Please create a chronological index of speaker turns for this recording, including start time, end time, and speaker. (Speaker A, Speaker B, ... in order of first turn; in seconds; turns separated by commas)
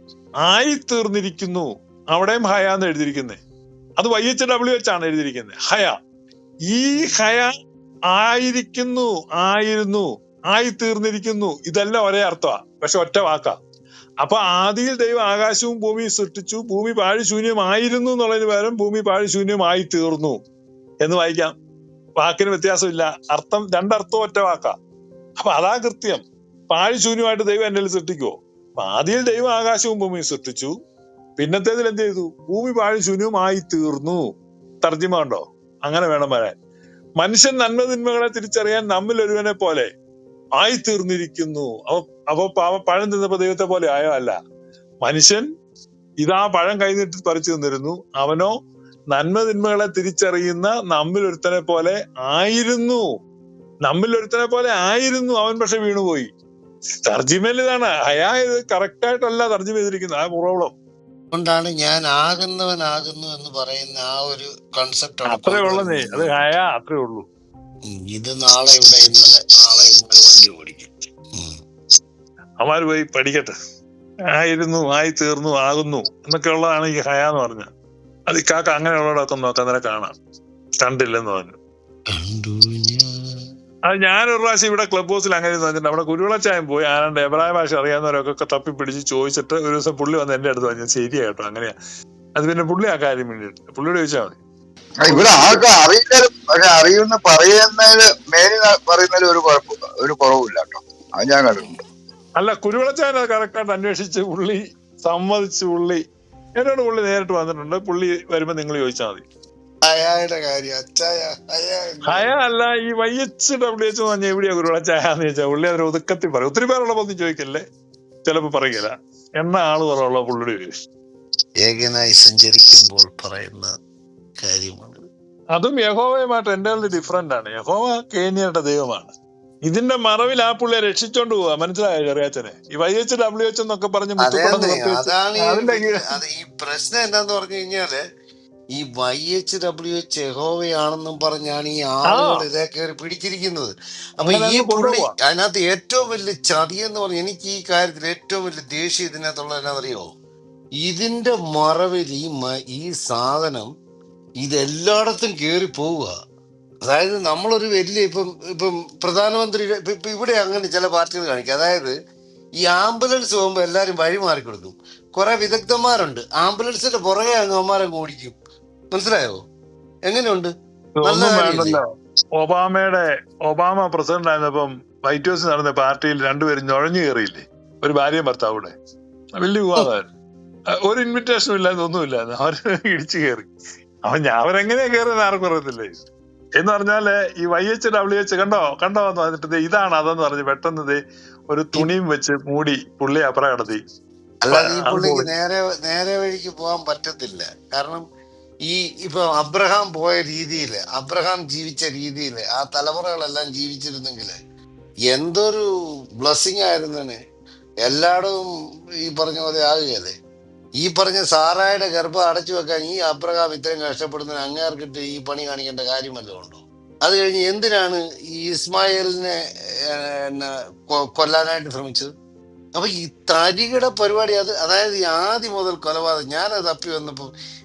Speaker A: 0.4-3.4, Speaker A: 4.0-6.0, Speaker A: 6.7-7.5, Speaker A: 8.1-13.6, Speaker A: 14.2-20.4, Speaker A: 21.0-21.5, Speaker A: 22.2-24.7, Speaker A: 25.4-30.7, Speaker A: 31.4-34.3, Speaker A: 34.8-36.5, Speaker A: 37.2-39.9, Speaker A: 40.6-44.4, Speaker A: 45.0-45.4, Speaker A: 46.2-48.5, Speaker A: 49.1-53.0, Speaker A: 53.9-56.3, Speaker A: 57.0-60.7, Speaker B: 61.3-66.4, Speaker A: 65.3-67.2, Speaker B: 67.8-71.6, Speaker A: 72.6-73.5, Speaker A: 74.4-77.7, Speaker A: 78.3-80.1, Speaker A: 80.8-81.5, Speaker B: 82.1-83.4, Speaker A: 83.9-91.7, Speaker A: 92.4-94.4, Speaker C: 95.0-101.7, Speaker A: 95.1-95.6, Speaker A: 102.4-106.0, Speaker A: 106.6-109.2, Speaker B: 109.8-112.3, Speaker A: 112.1-117.6, Speaker A: 118.2-120.8, Speaker B: 121.6-123.7, Speaker B: 124.4-125.0, Speaker A: 125.5-129.1, Speaker A: 129.7-136.2, Speaker B: 134.2-138.0, Speaker B: 138.7-150.1, Speaker A: 142.1-142.4, Speaker A: 144.2-145.1, Speaker B: 150.8-153.7, Speaker B: 154.4-156.1, Speaker B: 156.8-161.9, Speaker B: 162.6-168.4, Speaker B: 168.9-169.4, Speaker B: 170.1-170.5, Speaker A: 171.0-171.9, Speaker B: 171.0-171.8, Speaker A: 172.4-178.7, Speaker A: 179.4-180.1, Speaker A: 180.8-183.5, Speaker A: 184.1-186.0, Speaker A: 186.6-191.0, Speaker A: 191.5-193.8, Speaker B: 194.4-198.0, Speaker A: 194.5-195.3, Speaker B: 198.7-204.3, Speaker B: 205.1-205.7, Speaker B: 206.2-207.2, Speaker B: 207.8-208.5, Speaker B: 209.0-210.2, Speaker B: 210.8-222.1, Speaker B: 222.7-227.3